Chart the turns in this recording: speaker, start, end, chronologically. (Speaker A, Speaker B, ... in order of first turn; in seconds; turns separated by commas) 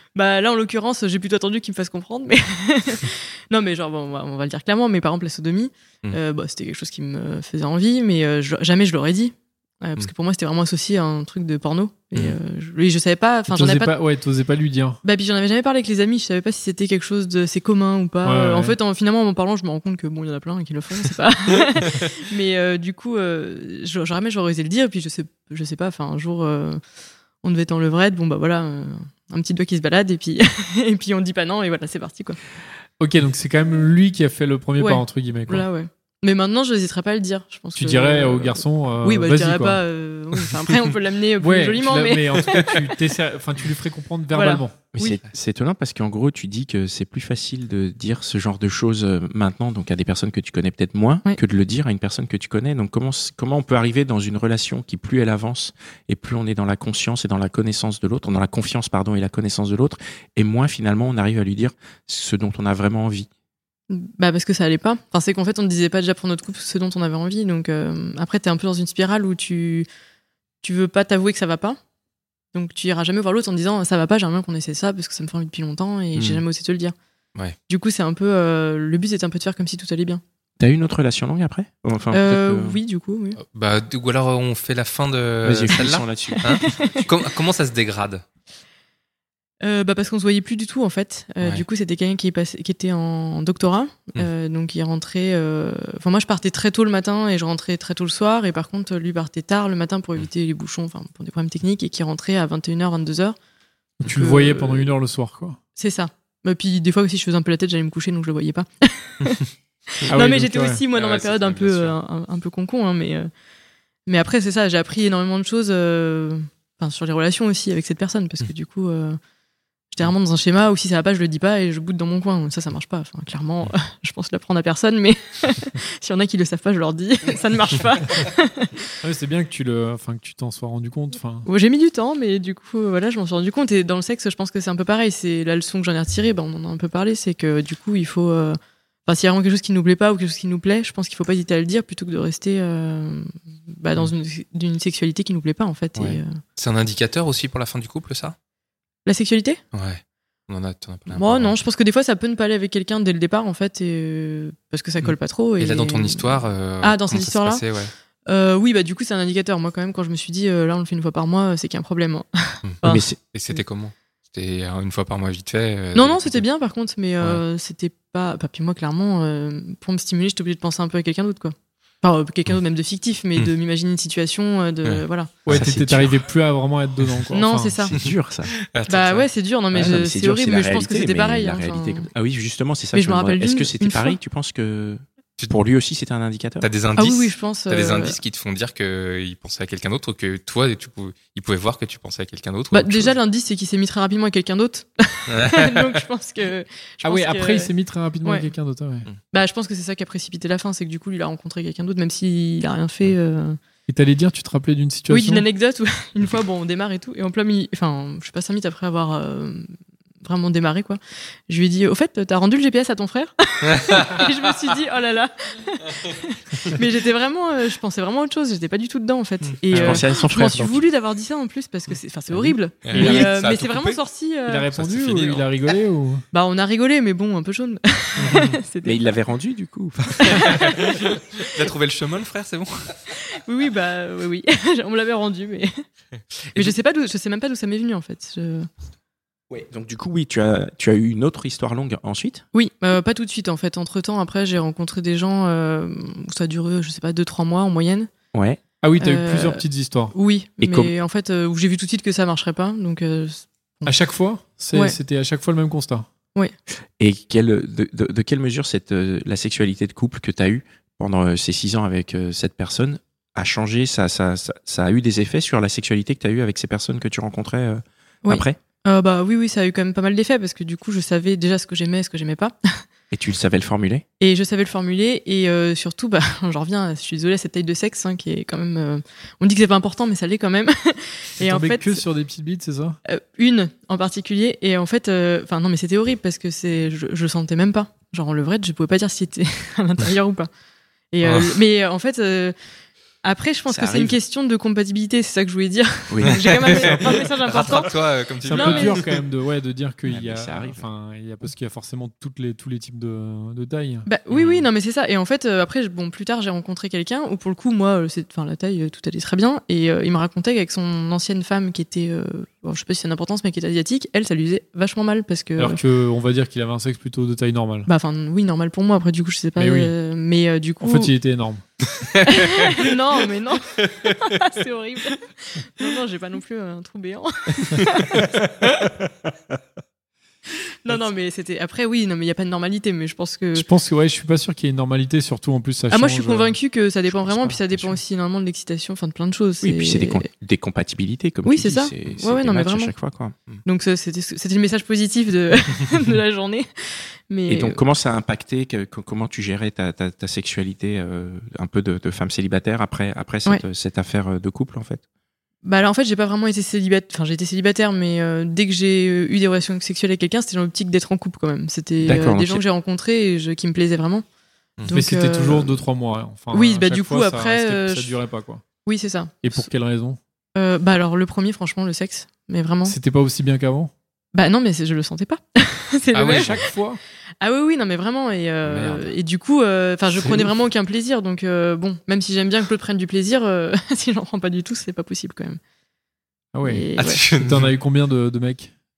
Speaker A: 0.1-13.9, Speaker B: 13.5-15.0, Speaker A: 15.0-26.8, Speaker B: 18.2-18.8, Speaker A: 27.4-32.4, Speaker B: 33.0-35.6, Speaker A: 34.8-42.9, Speaker B: 37.8-39.8, Speaker B: 41.4-44.8, Speaker A: 44.3-45.1, Speaker C: 44.9-63.3, Speaker A: 63.9-69.9, Speaker A: 70.6-71.8, Speaker A: 72.5-76.9, Speaker C: 76.2-76.4, Speaker A: 77.7-80.2, Speaker C: 80.6-82.8, Speaker A: 82.1-83.4, Speaker D: 83.4-88.2, Speaker C: 85.4-87.0, Speaker A: 86.3-87.0, Speaker A: 89.6-103.3, Speaker B: 104.0-105.6, Speaker A: 104.1-104.9, Speaker A: 105.8-109.4, Speaker A: 110.0-113.3, Speaker B: 110.1-110.8, Speaker D: 110.9-112.0, Speaker A: 114.0-119.2, Speaker A: 119.9-128.9, Speaker B: 129.0-131.5, Speaker A: 131.4-146.3, Speaker C: 145.9-146.2, Speaker D: 146.6-148.3, Speaker A: 149.1-149.6, Speaker D: 149.7-151.5, Speaker A: 151.1-157.6, Speaker D: 155.6-157.9, Speaker A: 158.2-163.6, Speaker C: 162.8-163.2, Speaker D: 163.3-166.4, Speaker A: 165.9-175.3, Speaker D: 174.8-175.7, Speaker B: 175.4-177.8, Speaker C: 175.5-176.2, Speaker A: 177.3-177.9, Speaker C: 177.9-178.5, Speaker D: 178.7-179.3, Speaker A: 178.9-182.1, Speaker C: 179.7-186.7, Speaker A: 182.9-184.2, Speaker D: 186.6-193.2, Speaker A: 187.0-188.2, Speaker A: 192.7-197.7, Speaker D: 195.3-196.0, Speaker B: 197.0-199.1, Speaker A: 198.2-198.5, Speaker A: 199.3-203.6, Speaker B: 203.9-205.4, Speaker A: 205.1-224.7, Speaker D: 213.7-214.2, Speaker C: 219.7-220.8, Speaker D: 219.7-220.0, Speaker D: 222.8-224.0, Speaker B: 222.9-223.3, Speaker B: 224.5-226.2, Speaker D: 224.7-225.7, Speaker A: 226.3-229.0, Speaker D: 228.2-228.5, Speaker C: 228.8-230.7, Speaker A: 230.2-231.4, Speaker D: 230.4-233.0, Speaker A: 233.3-235.8, Speaker A: 236.5-238.7, Speaker C: 239.5-242.4, Speaker A: 242.5-248.1, Speaker C: 248.3-248.6, Speaker B: 248.8-250.1, Speaker A: 249.0-253.9, Speaker C: 250.6-250.9, Speaker B: 253.8-256.1, Speaker C: 257.0-268.6, Speaker A: 268.2-272.8, Speaker C: 273.1-274.0, Speaker A: 274.2-282.0, Speaker B: 281.4-283.0, Speaker A: 283.1-290.5, Speaker A: 291.1-292.5, Speaker D: 291.2-291.6, Speaker A: 293.2-297.9, Speaker C: 293.7-294.2, Speaker C: 296.1-296.9, Speaker D: 296.4-299.2, Speaker B: 296.8-297.2, Speaker B: 298.4-304.1, Speaker A: 298.5-299.0, Speaker C: 300.1-300.8, Speaker A: 304.1-315.8, Speaker D: 304.3-304.7, Speaker B: 315.6-317.9, Speaker A: 317.9-321.1, Speaker B: 319.6-319.9, Speaker B: 320.8-321.6, Speaker D: 322.0-322.7, Speaker A: 322.2-328.3, Speaker A: 330.8-333.7, Speaker B: 333.5-336.6, Speaker A: 335.9-340.3, Speaker C: 337.3-337.9, Speaker C: 339.6-343.3, Speaker A: 341.4-342.9, Speaker A: 343.6-347.8, Speaker C: 347.5-355.0, Speaker A: 355.6-364.2, Speaker C: 362.0-362.6, Speaker A: 364.8-365.8, Speaker B: 364.9-368.6, Speaker A: 366.5-368.2, Speaker A: 368.8-369.7, Speaker B: 369.4-370.2, Speaker A: 370.6-372.9, Speaker B: 372.9-373.9, Speaker A: 374.3-376.6, Speaker D: 376.1-376.6, Speaker B: 376.3-377.0, Speaker A: 377.4-385.6, Speaker B: 380.2-380.5, Speaker B: 386.5-388.7, Speaker A: 386.6-387.2, Speaker D: 387.0-387.7